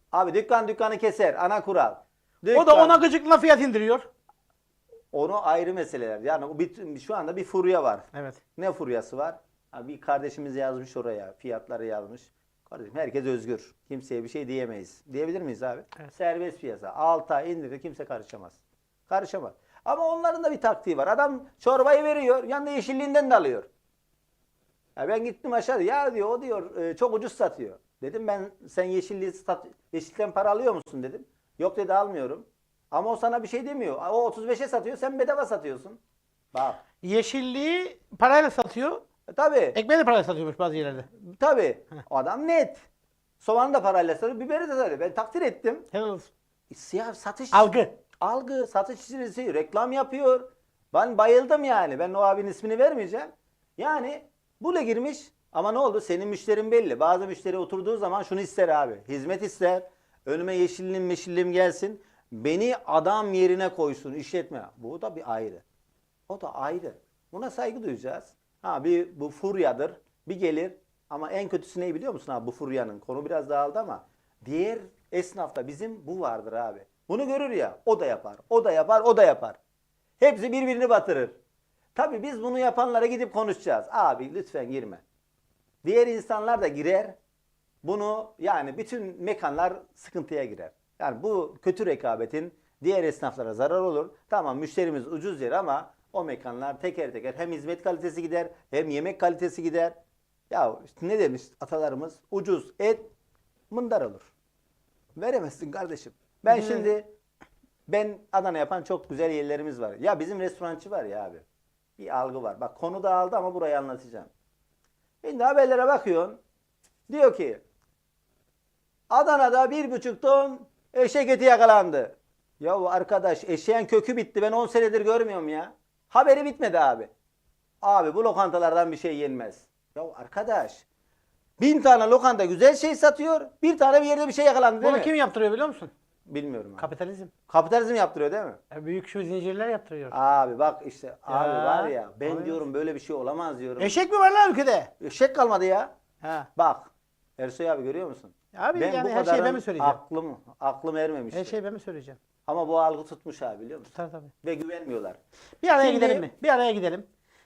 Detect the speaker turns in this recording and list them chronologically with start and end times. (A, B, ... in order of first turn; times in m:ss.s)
0:00.1-0:03.0 A
0:02.5-0:04.1 B
0:05.1-0:23.7 A
0:08.1-0:08.4 B
0:25.0-0:36.0 A
0:36.5-0:36.8 A
0:37.0-0:39.0 B
0:39.3-0:39.8 A
0:39.8-0:41.1 B
0:41.1-0:42.8 A
0:43.4-0:45.9 A
0:45.9-0:46.3 B
0:46.7-1:05.6 A
0:47.5-0:48.0 B
1:06.3-1:19.6 A
1:20.2-1:21.4 A
1:22.0-1:25.0 A
1:25.8-1:27.2 A
1:27.8-1:40.0 A
1:40.5-1:43.1 A
1:43.7-1:44.3 A
1:45.2-1:47.1 A
1:46.5-1:46.9 B
1:47.9-1:51.4 A
1:52.0-1:54.3 A
1:55.2-1:56.4 A
1:57.1-1:57.6 A
1:59.1-2:07.1 A
2:07.8-2:10.8 A
2:11.6-2:15.1 A
2:14.8-2:15.9 B
2:16.3-2:16.9 A
2:16.8-2:17.3 B
2:17.5-2:18.6 A
2:18.7-2:20.2 B
2:20.1-2:24.0 A
2:21.3-2:22.6 B
2:23.8-2:24.9 B
2:25.0-2:25.9 A
2:26.2-2:26.5 B
2:26.6-2:31.6 A
2:28.5-2:30.0 B
2:31.3-2:32.2 B
2:32.5-2:35.2 A
2:34.0-2:34.3 B
2:35.6-2:37.1 B
2:35.8-2:36.3 A